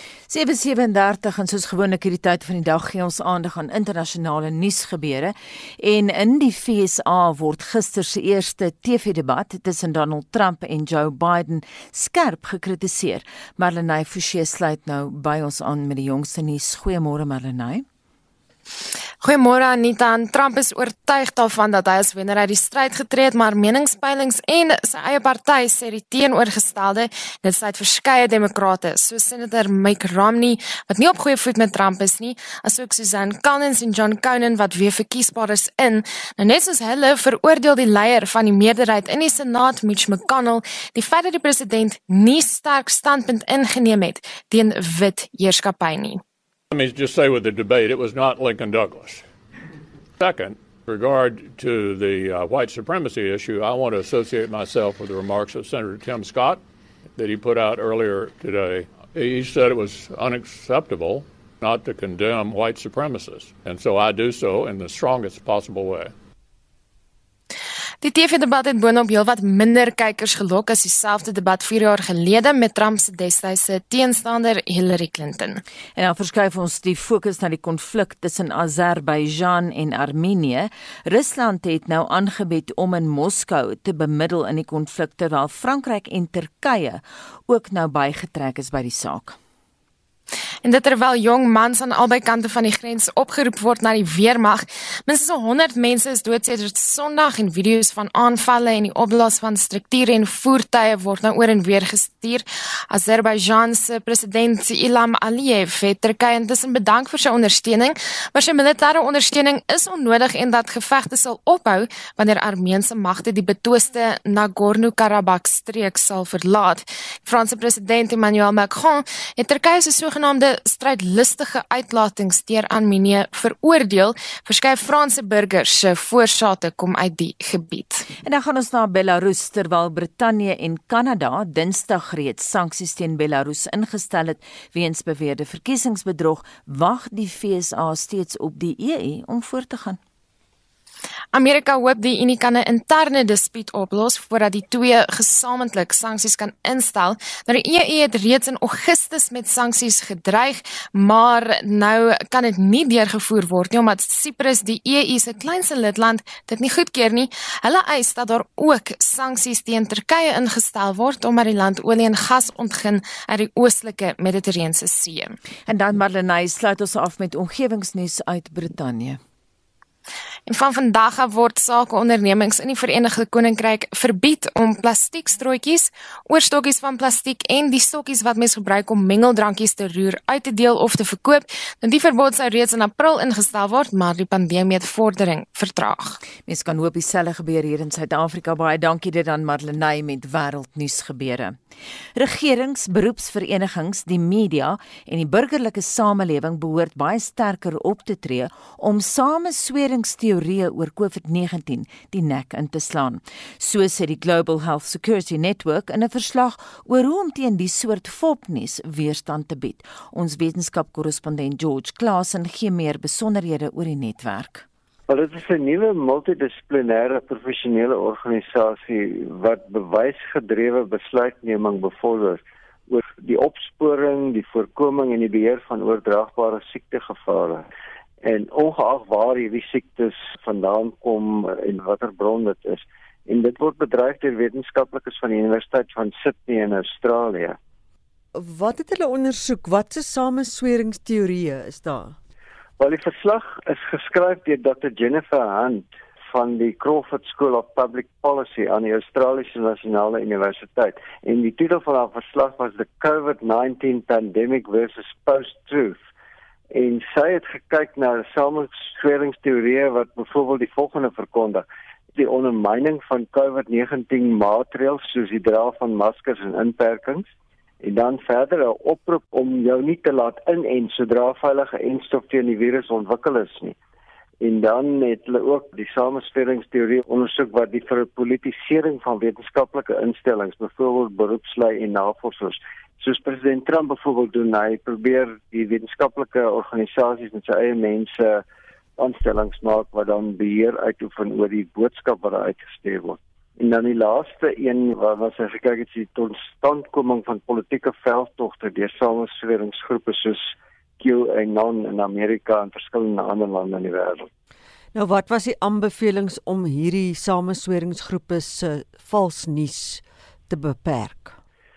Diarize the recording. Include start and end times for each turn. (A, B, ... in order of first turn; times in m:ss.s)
0:00.3-0:17.8 A
0:19.2-0:46.2 B
0:46.7-0:49.2 C
0:50.2-0:56.6 C
0:57.1-1:06.1 C
1:08.0-1:15.6 B
1:16.0-1:29.4 A
1:30.6-2:08.1 B
2:08.2-2:20.0 A
2:21.3-2:45.4 B
2:45.7-2:49.2 A
2:50.5-3:06.2 B
3:06.4-3:11.6 A
3:12.1-3:34.6 A
3:35.1-3:47.6 D
3:48.2-3:57.6 D
3:58.3-4:02.2 E
4:02.8-4:16.0 D
4:16.7-4:21.6 D
4:22.2-4:27.3 D
4:27.8-4:33.8 D
4:34.4-4:48.4 D
4:49.0-5:04.3 D
5:04.9-5:11.4 E